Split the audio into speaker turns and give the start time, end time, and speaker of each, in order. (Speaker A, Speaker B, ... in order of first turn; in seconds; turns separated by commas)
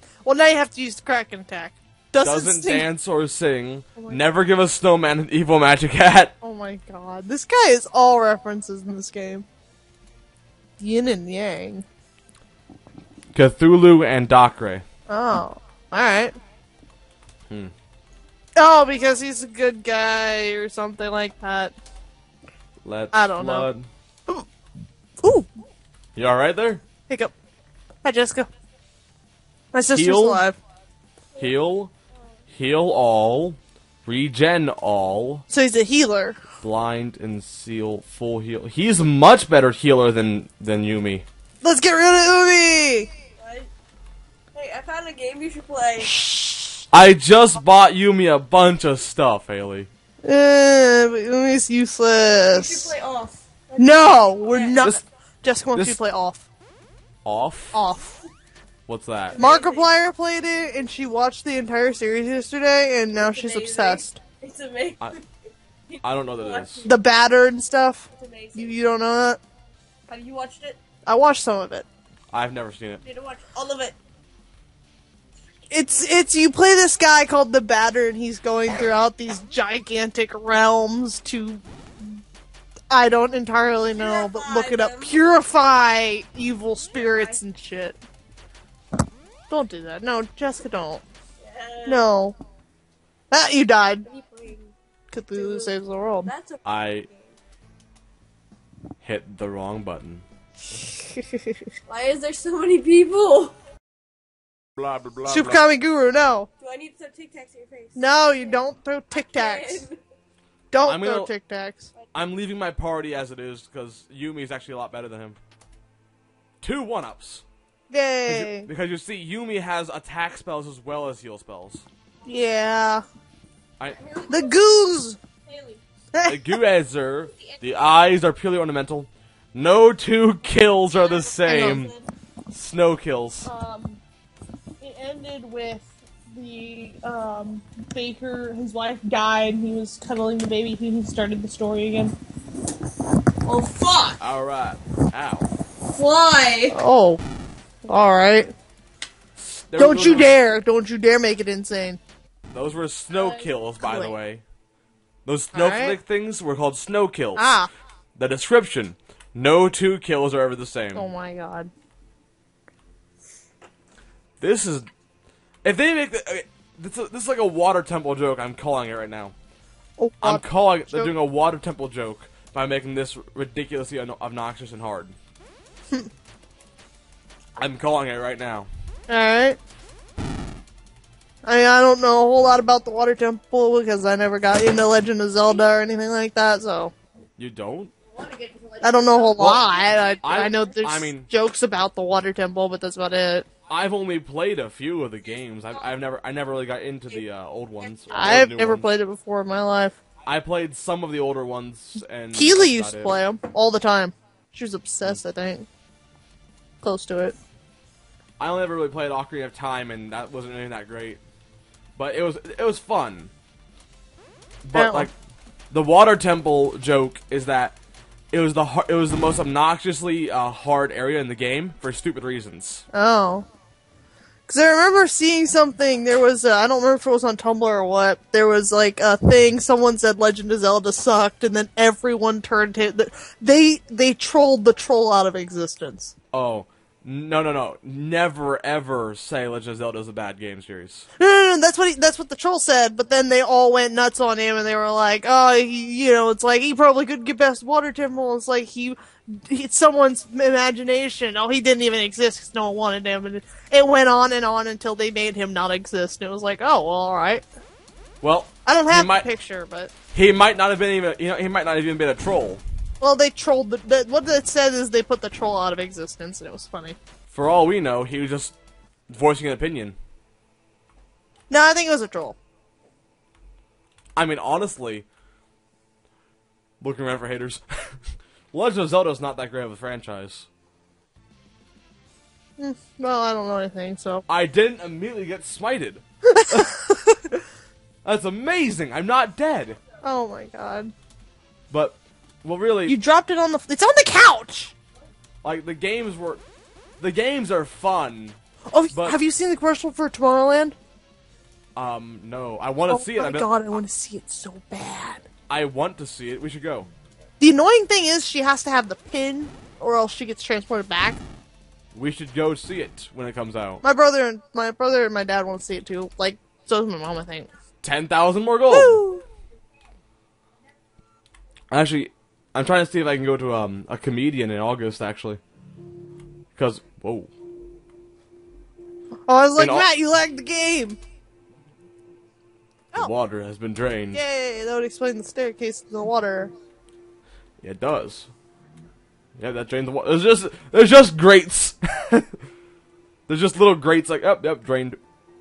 Speaker A: 0.2-2.9, Speaker B: 2.2-6.3, Speaker A: 4.0-4.2, Speaker A: 6.4-9.5, Speaker A: 10.8-11.8, Speaker B: 13.3-14.8, Speaker A: 15.1-16.4, Speaker A: 18.6-21.7, Speaker B: 22.9-23.9, Speaker A: 23.1-23.7, Speaker A: 25.2-25.5, Speaker B: 26.2-26.8, Speaker A: 27.1-27.3, Speaker A: 28.0-28.5, Speaker A: 29.7-30.6, Speaker B: 29.9-30.4, Speaker B: 31.4-31.9, Speaker B: 32.5-35.5, Speaker A: 35.5-36.4, Speaker B: 36.6-41.3, Speaker A: 41.6-43.1, Speaker C: 43.4-43.7, Speaker C: 44.5-46.1, Speaker A: 46.0-46.9, Speaker B: 46.9-49.9, Speaker A: 50.2-52.9, Speaker C: 52.4-54.8, Speaker A: 53.8-56.5, Speaker B: 57.2-57.8, Speaker A: 57.7-58.2, Speaker B: 58.9-59.4, Speaker C: 59.3-59.9, Speaker A: 59.4-64.2, Speaker C: 63.2-65.2, Speaker C: 65.9-67.0, Speaker B: 66.0-66.8, Speaker A: 66.8-69.4, Speaker C: 68.1-68.8, Speaker C: 70.1-70.8, Speaker A: 71.1-71.9, Speaker B: 72.3-73.0, Speaker C: 73.0-74.0, Speaker A: 75.7-81.6, Speaker A: 82.9-88.0, Speaker C: 84.0-85.2, Speaker C: 86.9-87.4, Speaker A: 89.5-91.0, Speaker C: 91.4-92.1, Speaker A: 91.8-92.4, Speaker A: 93.3-94.1, Speaker C: 94.1-94.7, Speaker A: 95.1-96.3, Speaker C: 95.3-95.7, Speaker C: 96.2-97.3, Speaker B: 96.6-97.1, Speaker B: 99.0-100.2, Speaker A: 100.8-101.6, Speaker C: 101.9-103.5, Speaker B: 104.8-105.6, Speaker A: 105.3-106.5, Speaker C: 106.6-110.0, Speaker A: 108.0-109.8, Speaker A: 110.7-111.9, Speaker B: 110.8-111.3, Speaker B: 112.1-115.4, Speaker B: 116.6-117.5, Speaker A: 117.9-118.7, Speaker B: 118.3-121.9, Speaker A: 122.2-123.0, Speaker C: 123.9-124.6, Speaker A: 124.3-125.2, Speaker C: 125.5-125.8, Speaker A: 126.1-126.6, Speaker B: 126.3-131.9, Speaker C: 131.2-131.9, Speaker A: 131.4-131.9, Speaker B: 132.5-133.5, Speaker A: 133.5-134.0, Speaker A: 134.8-142.2, Speaker C: 143.5-144.2, Speaker B: 144.2-145.5, Speaker C: 145.9-146.8, Speaker A: 146.7-147.2, Speaker A: 147.8-148.5, Speaker B: 149.4-150.3, Speaker A: 149.8-152.0, Speaker B: 152.5-154.4, Speaker C: 153.2-153.4, Speaker A: 153.8-154.1, Speaker B: 155.2-157.5, Speaker A: 155.5-156.0, Speaker A: 157.4-157.7, Speaker B: 158.2-161.1, Speaker A: 160.9-161.7, Speaker B: 164.4-164.9, Speaker B: 165.6-169.3, Speaker A: 170.0-171.1, Speaker B: 170.2-175.2, Speaker B: 177.6-178.7, Speaker A: 179.1-179.6, Speaker A: 181.4-186.9, Speaker B: 187.4-187.9, Speaker C: 188.2-190.7, Speaker A: 188.8-193.5, Speaker B: 189.4-191.3, Speaker B: 193.7-198.9, Speaker A: 198.1-200.0, Speaker B: 200.3-203.2, Speaker A: 202.3-205.7, Speaker A: 206.8-207.4, Speaker B: 208.4-211.2, Speaker B: 212.0-213.3, Speaker B: 214.6-215.1, Speaker A: 214.7-215.1, Speaker B: 215.7-217.8, Speaker B: 218.3-222.8, Speaker A: 222.9-223.5, Speaker A: 224.5-236.1, Speaker B: 236.3-241.1, Speaker A: 241.2-257.4, Speaker B: 258.2-259.3, Speaker A: 258.7-259.9, Speaker B: 260.1-262.6, Speaker A: 263.0-267.0, Speaker B: 267.3-268.5, Speaker B: 269.1-270.0, Speaker A: 271.5-272.4, Speaker B: 274.2-275.1, Speaker B: 276.8-280.5, Speaker A: 282.6-284.2, Speaker B: 284.3-286.7, Speaker A: 286.2-287.2, Speaker B: 288.0-289.8, Speaker A: 290.0-290.9, Speaker B: 291.7-293.0, Speaker A: 292.9-294.8, Speaker B: 295.4-296.4, Speaker B: 297.0-298.4, Speaker A: 298.7-300.8, Speaker B: 298.9-299.2, Speaker B: 301.8-303.5, Speaker A: 302.9-305.2, Speaker B: 305.5-306.9, Speaker A: 307.4-311.2, Speaker B: 311.9-313.8, Speaker A: 313.8-317.5, Speaker B: 317.8-319.0, Speaker A: 318.7-319.2, Speaker B: 321.7-325.4, Speaker B: 326.6-327.3, Speaker A: 329.3-331.0, Speaker B: 329.6-329.9, Speaker B: 332.9-334.2, Speaker A: 334.1-336.5, Speaker B: 337.6-338.3, Speaker B: 339.4-342.3, Speaker B: 343.3-345.0